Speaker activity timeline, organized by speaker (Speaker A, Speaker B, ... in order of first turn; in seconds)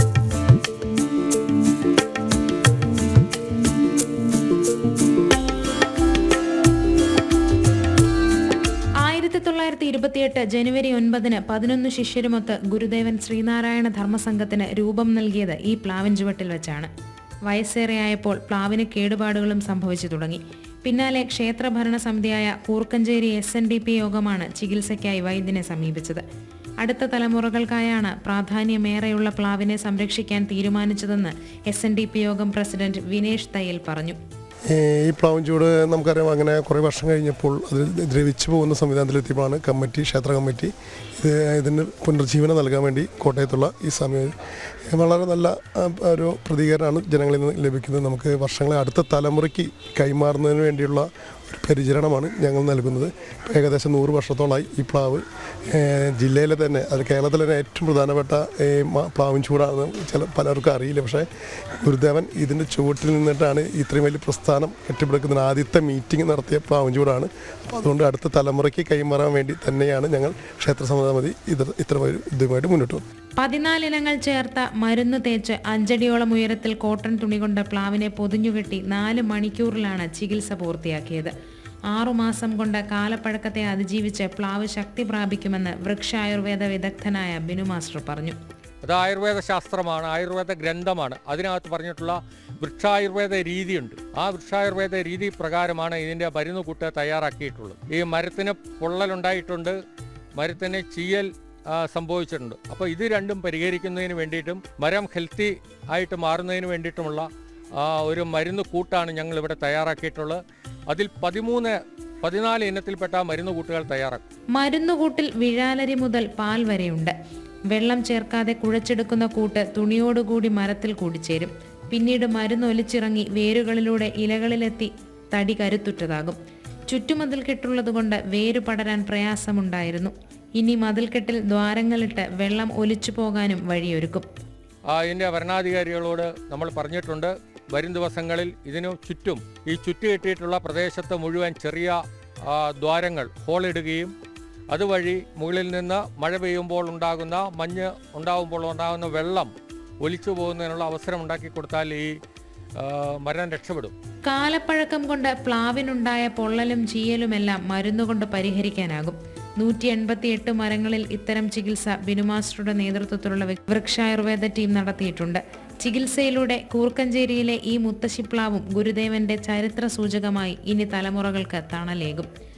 Speaker A: 9.0-16.9, 17.5-26.2, 26.8-34.2, 73.4-81.3, 81.9-88.4, 114.5-117.2, 117.7-134.3, 154.2-172.3
Speaker B: 34.7-44.3, 44.9-61.3, 61.8-73.0
Speaker C: 88.8-99.8, 100.4-107.3, 107.8-114.3, 134.9-144.1, 144.7-152.1, 152.8-153.9